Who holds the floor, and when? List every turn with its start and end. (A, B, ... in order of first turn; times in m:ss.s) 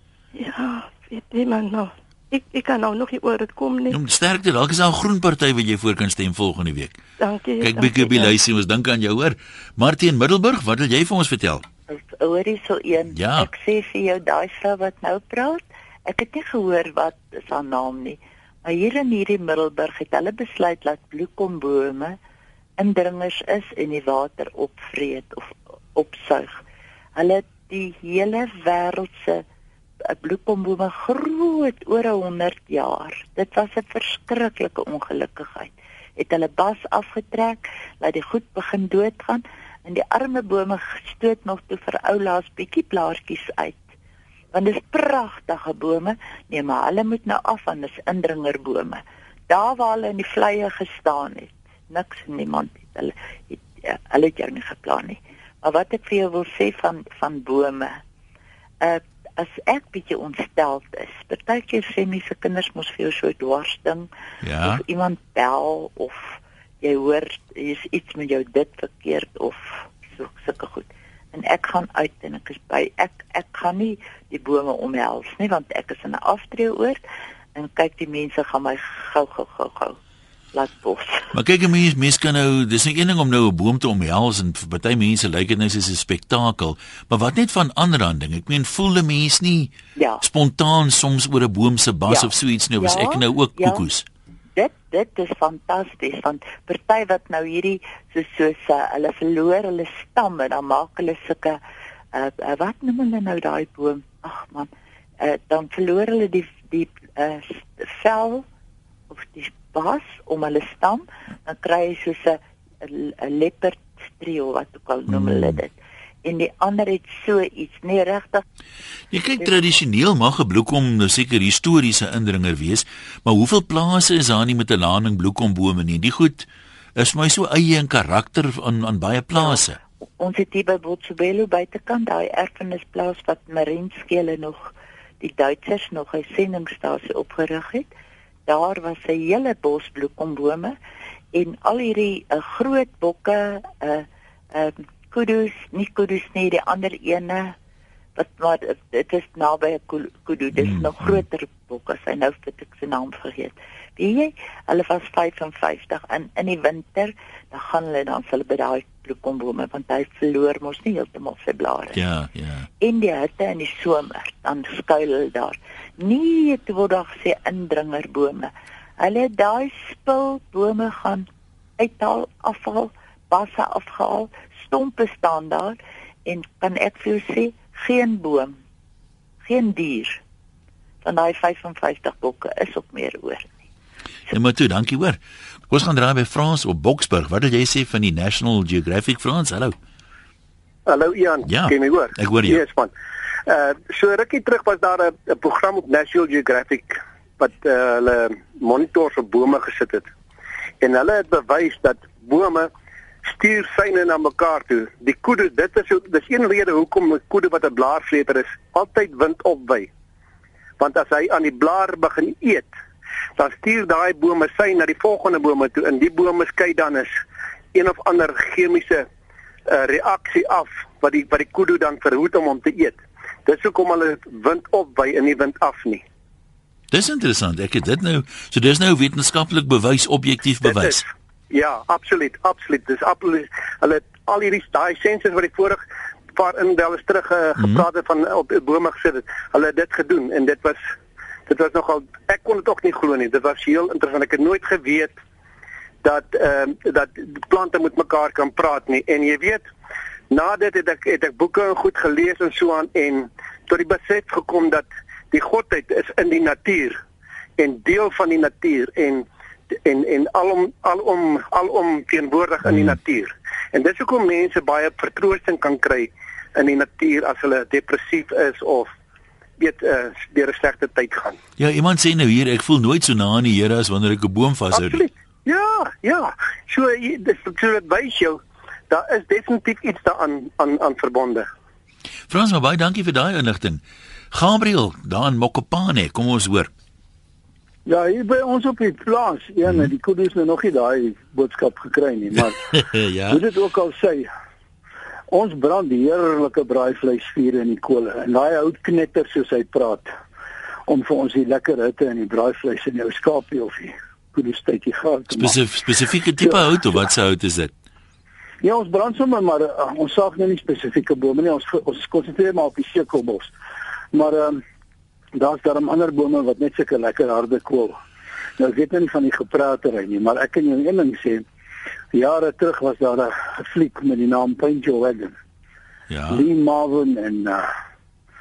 0:00.4-0:04.0 A
0:03.9-0:07.0 B
0:07.2-0:08.4 A
0:07.6-0:11.6 B
0:11.9-0:22.2 C
0:13.1-0:13.5 B
0:22.8-0:26.6 C
0:27.2-0:29.4 C
0:30.0-0:43.8 C
0:44.5-0:58.0 C
0:58.8-1:04.1 C
1:04.4-1:04.8 B
1:04.6-1:17.0 C
1:17.5-1:20.0 C
1:20.5-1:21.3 C
1:21.3-1:34.0 B
1:30.0-1:30.2 C
1:32.1-1:33.8 C
1:34.6-1:41.6 C
1:42.1-1:44.7 C
1:45.2-1:48.4 C
1:49.1-1:58.4 C
1:55.1-1:55.6 B
1:59.1-2:09.8 B
2:09.4-2:17.9 C
2:18.5-2:20.8 C
2:21.3-2:27.5 C
2:28.2-2:42.0 C
2:41.9-2:42.7 B
2:42.8-2:51.3 C
2:51.8-2:58.6 C
2:59.4-3:00.2 C
3:01.0-3:03.6 C
3:04.3-3:05.2 B
3:05.7-3:09.8 B
3:10.9-3:12.9 D
3:11.4-3:12.6 B
3:13.4-3:20.1 D
3:20.8-3:22.7 D
3:23.2-3:29.9 D
3:30.8-3:32.7 D
3:33.4-3:37.1 D
3:37.7-3:39.0 D
3:39.7-3:46.0 D
3:46.9-3:51.0 B
3:50.6-3:55.8 D
3:56.3-4:00.8 D
3:57.6-3:57.8 B
4:01.5-4:05.1 D
4:06.0-4:09.6 D
4:10.3-4:17.0 D
4:17.6-4:28.9 D
4:22.6-4:23.0 B
4:29.6-4:31.4 D
4:31.6-4:35.0 B
4:34.7-4:41.5 D
4:42.3-4:46.7 B
4:47.8-4:54.3 E
4:52.4-4:53.4 B
4:55.3-5:00.1 E
5:00.9-5:05.6 E
5:05.3-5:07.7 B
5:08.6-5:13.5 E
5:14.1-5:14.6 E
5:15.3-5:18.0 E
5:18.6-5:21.4 E
5:22.1-5:25.3 E
5:26.1-5:26.4 B
5:26.3-5:27.7 E